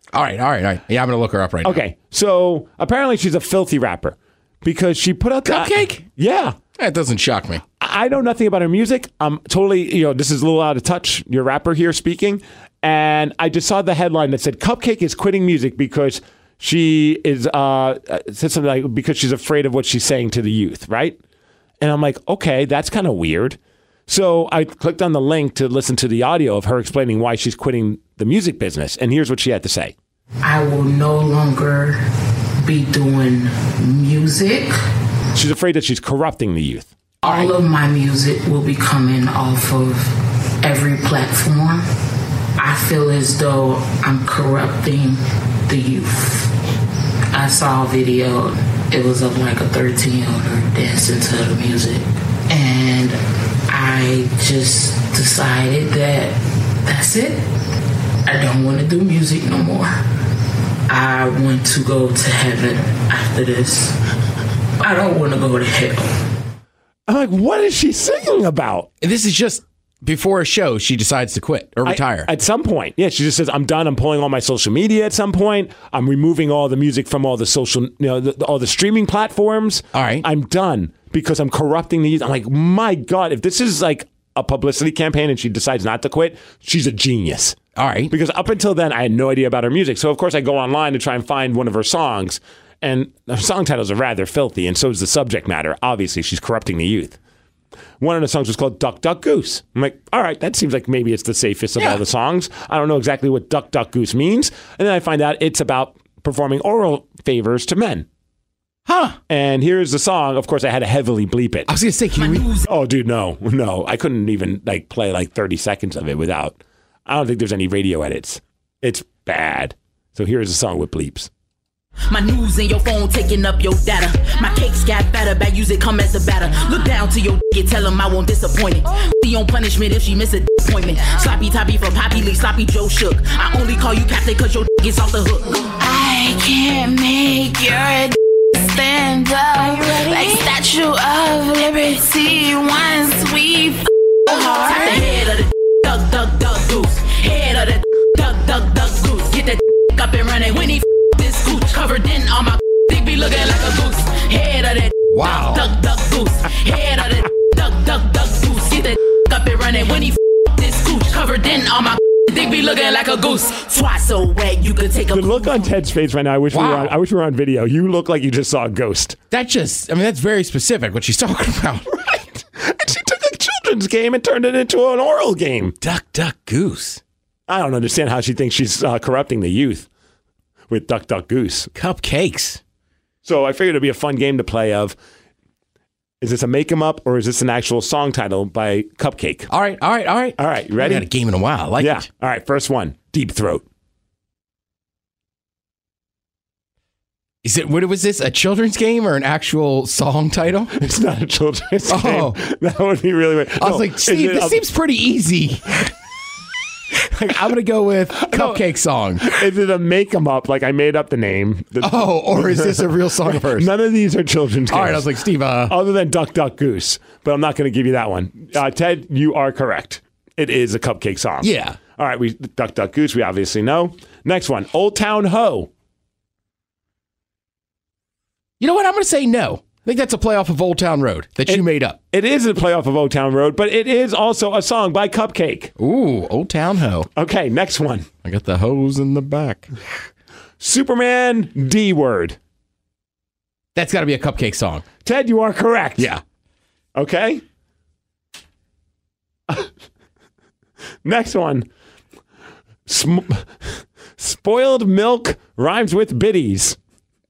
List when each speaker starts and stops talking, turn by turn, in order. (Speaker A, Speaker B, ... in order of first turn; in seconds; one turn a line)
Speaker A: 0.1-1.8
Speaker B: 1.6-6.5
Speaker A: 5.4-6.0
Speaker A: 6.8-7.6
Speaker B: 7.8-21.2
Speaker B: 21.8-23.6
Speaker B: 24.1-29.9
Speaker C: 30.4-32.0
Speaker C: 32.6-34.8
Speaker B: 35.4-36.9
Speaker A: 37.2-37.5
Speaker C: 37.2-41.8
Speaker C: 42.6-46.5
Speaker C: 47.3-53.2
Speaker C: 53.7-57.4
Speaker C: 58.2-60.0
Speaker C: 60.9-63.9
Speaker C: 64.8-66.1
Speaker B: 67.1-68.9
Speaker A: 69.0-72.3
Speaker B: 71.8-87.6
Speaker A: 79.9-80.2
Speaker A: 87.8-88.1
Speaker B: 88.1-97.2
Speaker B: 98.0-108.0
Speaker A: 101.8-102.0
Speaker A: 108.8-109.2
Speaker B: 109.3-111.7
Speaker A: 111.7-112.5
Speaker D: 112.2-112.7
Speaker B: 112.7-121.3
Speaker D: 122.1-135.7
Speaker E: 135.8-143.8
Speaker D: 139.7-140.5
Speaker D: 144.3-165.7
Speaker A: 155.1-155.7
Speaker B: 165.1-169.2
Speaker A: 166.5-166.9
Speaker A: 169.3-172.4
Speaker B: 172.6-175.8
Speaker A: 175.8-177.0
Speaker B: 177.5-179.9
Speaker B: 180.7-181.7
Speaker A: 181.7-182.6
Speaker B: 183.2-184.9
Speaker B: 186.2-189.5
Speaker A: 189.5-192.0
Speaker B: 190.4-191.1
Speaker B: 191.8-193.6
Speaker A: 197.4-200.7
Speaker B: 200.7-204.6
Speaker A: 201.9-202.4
Speaker A: 203.6-205.9
Speaker A: 206.9-209.4
Speaker B: 208.2-208.6
Speaker B: 209.2-225.7
Speaker A: 211.8-213.7
Speaker A: 214.7-215.8
Speaker A: 221.4-221.8
Speaker A: 228.6-232.0
Speaker B: 231.5-235.7
Speaker A: 235.8-237.1
Speaker B: 237.2-238.1
Speaker A: 238.2-239.7
Speaker B: 240.6-242.4
Speaker A: 243.7-244.8
Speaker B: 245.0-246.1
Speaker A: 246.0-246.2
Speaker B: 246.9-247.4
Speaker B: 251.0-251.7
Speaker B: 252.9-253.4
Speaker B: 254.2-256.8